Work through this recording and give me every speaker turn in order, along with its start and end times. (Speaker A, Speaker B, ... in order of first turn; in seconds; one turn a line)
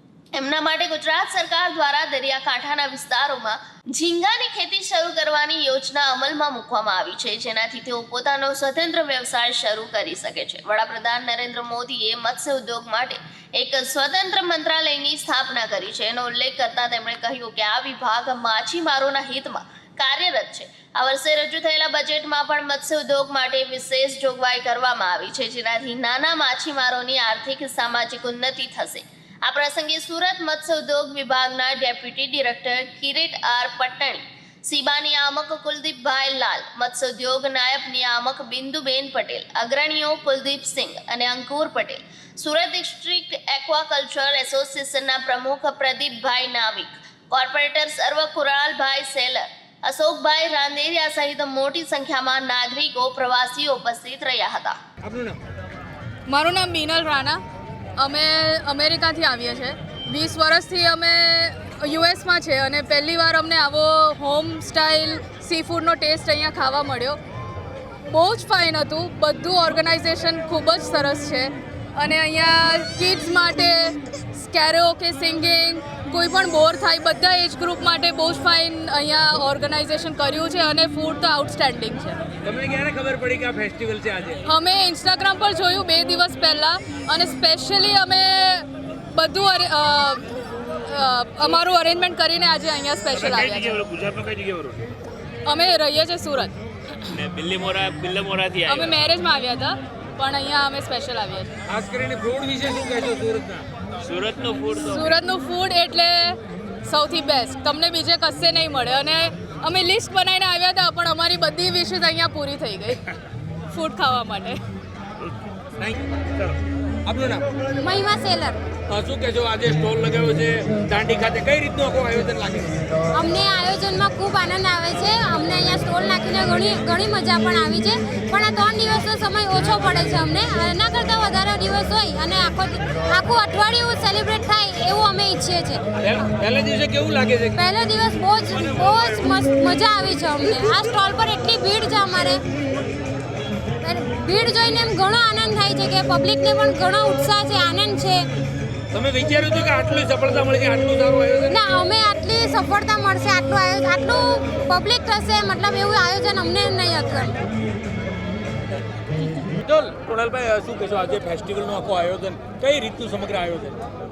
Speaker A: 0.3-54.8
Speaker B: 55.0-55.4
Speaker C: 56.3-57.4
Speaker C: 58.0-67.2
Speaker C: 68.1-82.2
Speaker B: 82.4-84.5
Speaker C: 84.5-93.8
Speaker D: 93.3-94.8
Speaker C: 95.5-96.5
Speaker D: 97.1-99.0
Speaker C: 98.7-101.5
Speaker B: 101.7-103.7
Speaker D: 104.0-105.1
Speaker C: 104.8-113.0
Speaker C: 113.7-114.6
Speaker B: 115.8-117.5
Speaker E: 117.8-118.6
Speaker B: 118.9-122.8
Speaker E: 123.1-135.8
Speaker B: 136.0-137.6
Speaker E: 137.6-142.4
Speaker B: 138.6-138.9
Speaker E: 143.8-148.3
Speaker B: 148.9-151.6
Speaker E: 151.5-157.3
Speaker B: 159.5-163.8